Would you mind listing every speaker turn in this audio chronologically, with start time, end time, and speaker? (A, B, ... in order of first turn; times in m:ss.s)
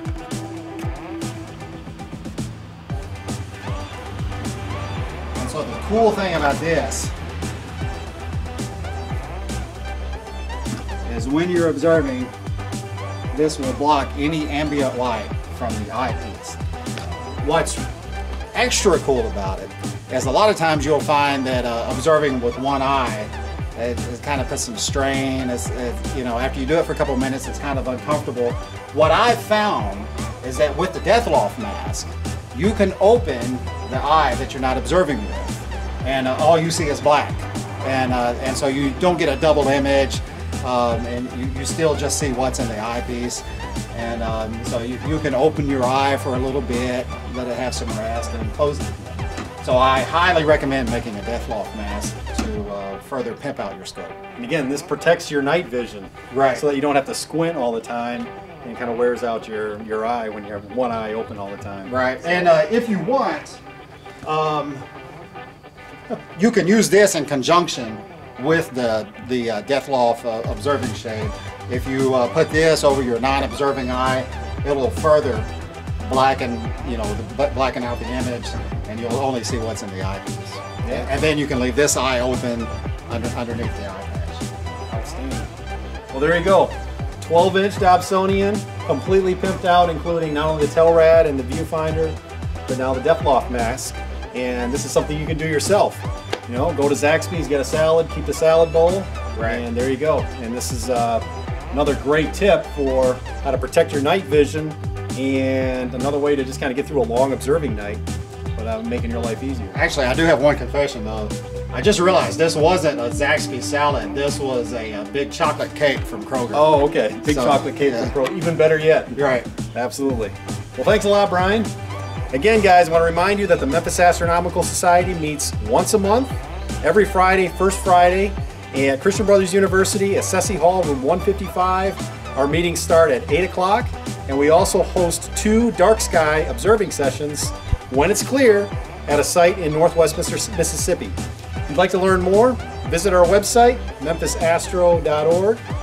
0:05.4-0:07.1 A
0:11.1-0:12.3 A
0:13.3-0:16.6 A
0:17.4-0:17.9 A
0:18.5-0:54.2 A
0:54.4-1:02.6 B
0:56.3-0:56.6 A
1:01.9-1:03.6 A
1:04.2-1:04.8 A
1:06.3-1:15.5 A
1:16.0-1:24.4 A
1:20.8-1:21.1 B
1:24.9-1:25.5 B
1:26.1-1:32.2 B
1:32.7-1:48.0 B
1:39.4-1:39.6 A
1:48.6-1:49.8 B
1:49.7-1:56.7 A
1:56.5-2:01.7 B
1:57.2-1:58.1 A
1:59.2-1:59.5 A
2:02.3-2:25.6 B